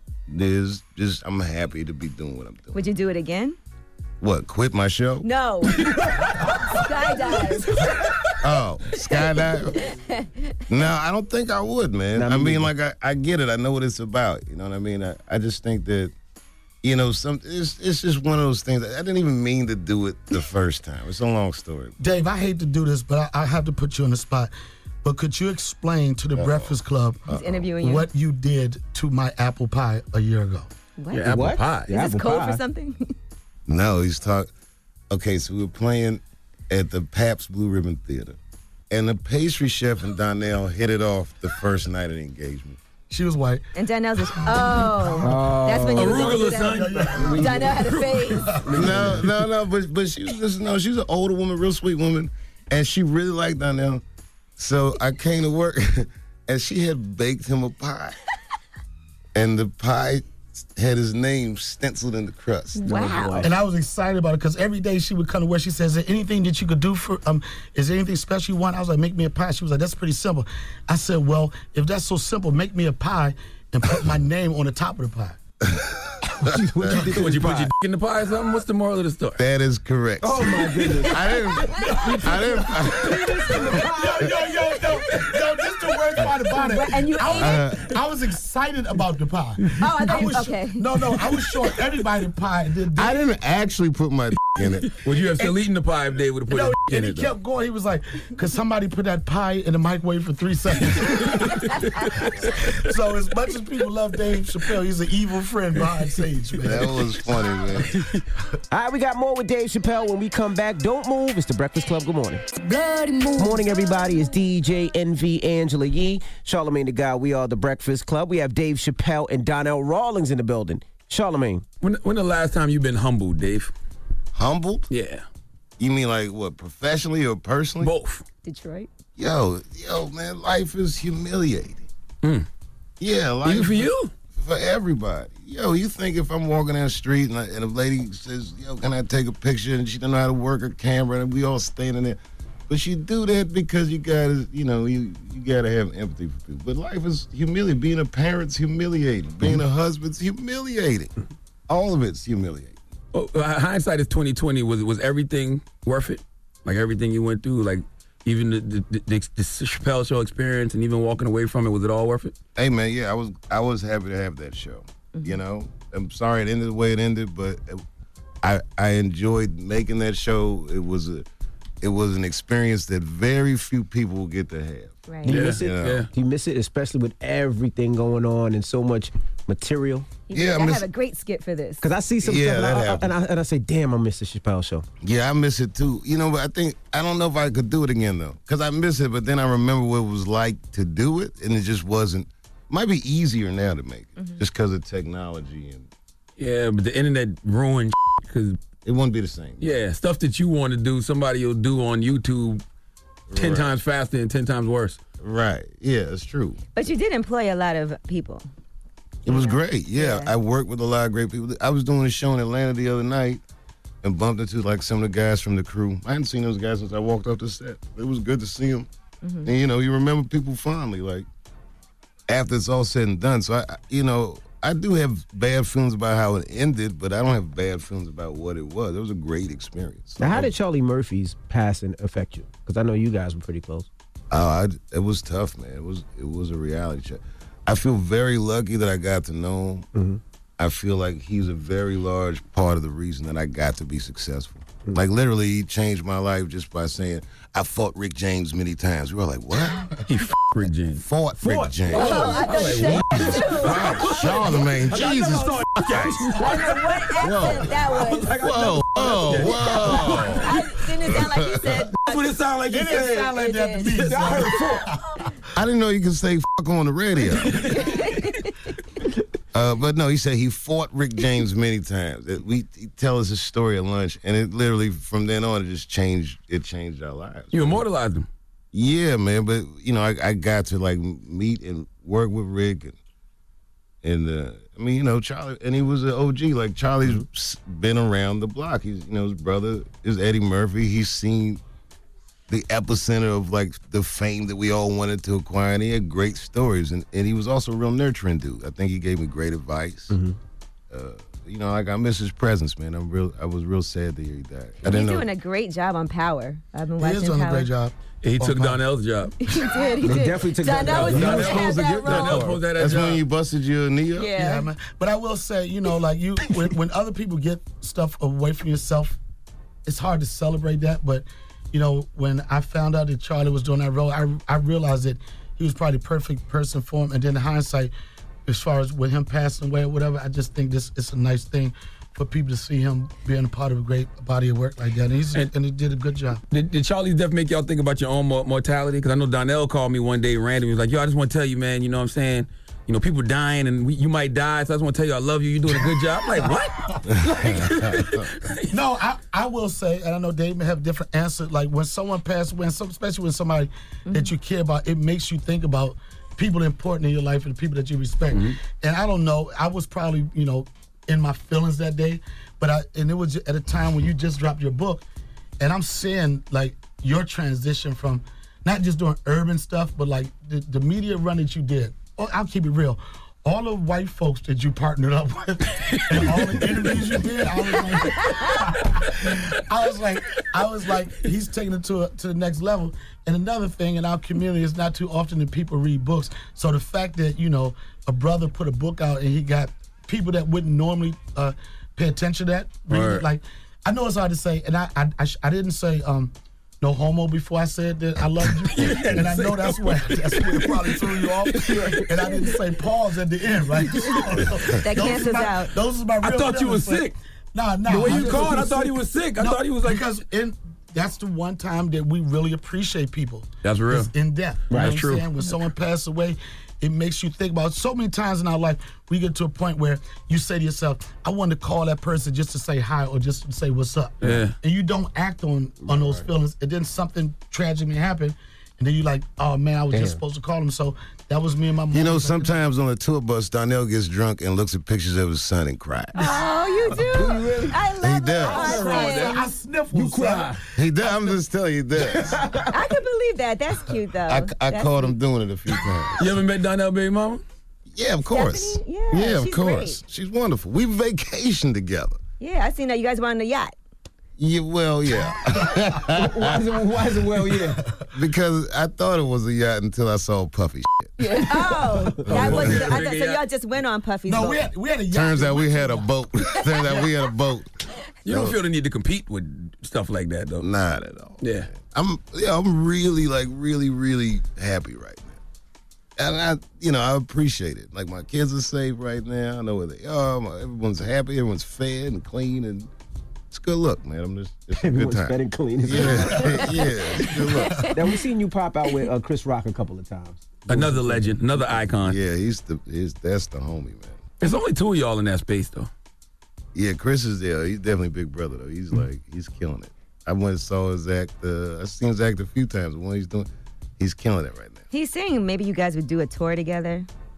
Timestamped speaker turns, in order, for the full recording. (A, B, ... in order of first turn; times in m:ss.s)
0:00.3-0:02.8 A
0:02.7-0:03.6 B
0:04.2-0:05.2 A
0:05.2-0:05.8 B
0:06.7-0:07.7 B
0:08.4-0:09.8 A
0:09.7-0:10.4 B
0:10.7-0:16.1 A
0:12.1-0:12.7 C
0:16.8-0:22.0 A
0:22.0-0:24.5 D
0:25.0-0:27.2 D
0:26.4-0:26.7 A
0:27.3-0:27.7 A
0:27.3-0:28.1 B
0:27.8-0:30.7 D
0:31.0-0:33.1 B
0:31.1-0:31.9 E
0:31.3-0:32.6 C
0:33.7-0:34.5 A
0:35.1-0:38.4 A
0:38.9-0:42.8 A
0:43.1-0:43.7 D
0:43.8-0:48.6 B
0:44.2-0:45.4 D
0:45.2-0:46.3 C
0:45.9-0:47.4 E
0:46.3-0:49.2 D
0:48.6-0:49.2 C
0:48.8-0:54.0 A
0:54.6-0:58.2 A
0:59.3-1:03.0 A
1:02.8-1:03.5 B
1:02.8-1:03.5 C
1:03.4-1:15.4 D
1:15.7-1:16.5 A
1:16.4-1:17.7 C
1:17.0-1:19.4 E
1:19.4-1:23.2 A
1:20.2-1:24.5 C
1:21.8-1:33.2 D
1:26.6-1:27.6 B
1:27.4-1:27.9 A
1:29.8-1:30.9 B
1:33.0-1:35.0 A
1:34.9-1:37.4 E
1:36.5-1:47.1 D
1:46.6-1:47.9 A
1:48.7-1:52.4 C
1:52.7-1:53.5 B
1:53.3-2:01.6 C
2:01.8-2:03.7 E
2:04.3-2:04.9 A
2:04.9-2:05.2 E
2:05.8-2:07.9 A
2:07.8-2:08.2 E
2:08.4-2:08.9 B
2:09.2-2:11.9 A
2:13.0-2:31.1 A
2:13.4-2:14.1 E
2:31.7-2:32.8 A
2:33.1-2:42.3 E
2:42.6-2:47.8 A
2:45.1-2:45.4 B
2:48.4-2:51.2 A
2:51.8-2:56.0 A
2:55.1-2:55.4 B
2:55.2-3:00.1 C
2:55.3-2:56.1 E
3:00.3-3:01.8 B
3:00.3-3:00.8 A
3:01.8-3:04.8 C
3:02.2-3:03.2 A
3:05.0-3:15.9 A
3:16.4-3:18.6 E
3:18.8-3:19.8 A
3:19.6-3:22.6 E
3:23.3-3:23.7 A
3:23.3-3:25.0 E
3:25.2-3:26.6 A
3:26.8-3:28.4 B
3:29.2-3:33.4 A
3:29.3-3:30.3 B
3:34.0-3:38.9 A
3:39.2-3:39.5 B
3:39.4-3:41.2 A
3:42.3-3:50.5 A
3:50.2-3:53.9 C
3:54.3-3:59.9 A
3:59.9-4:00.2 C
4:00.6-4:09.9 A
4:10.0-4:11.0 E
4:11.0-4:12.2 A
4:11.4-4:13.3 C
4:11.9-4:14.1 B
4:11.9-4:17.0 E
4:13.6-4:16.3 A
4:15.0-4:15.6 C
4:16.4-4:18.3 B
4:16.5-4:16.8 C
4:17.2-4:17.7 A
4:17.9-4:19.4 C
4:18.4-4:20.4 A
4:18.4-4:20.6 E
4:19.6-4:22.3 B
4:21.1-4:21.7 A
4:22.0-4:23.4 E
4:22.7-4:24.8 D
4:22.9-4:24.0 B
4:23.9-4:24.6 E
4:24.0-4:24.8 C
4:25.6-4:27.6 A
4:27.4-4:28.1 E
4:27.7-4:28.5 B
4:29.5-4:37.8 A
4:37.5-4:38.3 E
4:38.7-4:43.0 A
4:44.0-4:51.6 A
4:52.5-5:00.2 A
5:00.1-5:00.4 C
5:00.9-5:05.3 A
5:04.8-5:07.7 B
5:07.0-5:08.8 D
5:08.2-5:09.4 E
5:09.4-5:12.4 B
5:10.0-5:12.6 C
5:10.8-5:13.2 E
5:12.7-5:14.4 A
5:14.2-5:14.7 B
5:14.3-5:19.2 D
5:19.8-5:27.9 D
5:28.5-5:36.4 D
5:36.5-5:48.7 E
5:45.7-5:47.0 D
5:47.1-5:48.2 A
5:48.7-6:05.0 D
5:54.1-5:54.3 B
5:58.3-5:58.6 E
6:05.6-7:12.6 D
6:15.9-6:16.6 E
6:32.9-6:33.3 E
6:38.6-6:42.0 E
6:44.8-6:45.7 B
6:46.2-6:47.1 E
6:47.9-6:50.2 E
6:48.1-6:48.7 C
6:53.6-6:54.1 E
6:54.7-6:55.0 C
6:54.7-6:55.3 E
7:04.2-7:04.6 E
7:05.8-7:06.2 A
7:09.9-7:10.2 C
7:11.9-7:16.2 A
7:16.2-7:19.4 B
7:17.1-7:17.8 C
7:18.0-7:18.7 A
7:18.5-7:19.4 E
7:18.6-7:19.0 C
7:18.6-7:21.4 D
7:19.9-7:20.6 C
7:20.8-7:22.5 A
7:22.0-7:22.7 C
7:22.7-7:25.1 B
7:24.3-7:26.2 A
7:26.2-7:27.4 E
7:27.9-7:32.2 A
7:28.3-7:30.0 B
7:32.4-7:33.7 B
7:34.4-7:36.6 A
7:36.1-7:37.8 C
7:38.1-7:41.1 A
7:41.2-7:44.6 B
7:42.2-7:43.4 E
7:42.3-7:43.0 A
7:44.2-7:46.1 D
7:45.1-7:47.7 A
7:46.8-7:47.1 D
7:48.2-7:50.7 E
7:48.2-7:48.6 A
7:50.6-7:55.4 A
7:51.4-7:51.7 E
7:56.2-8:02.9 A
8:03.5-8:07.7 A
8:04.8-8:06.7 C
8:07.4-8:08.0 B
8:07.8-8:11.3 C
8:10.7-8:12.2 E
8:11.9-8:14.2 A
8:14.4-8:15.9 E
8:16.7-8:24.8 A
8:24.9-8:27.1 B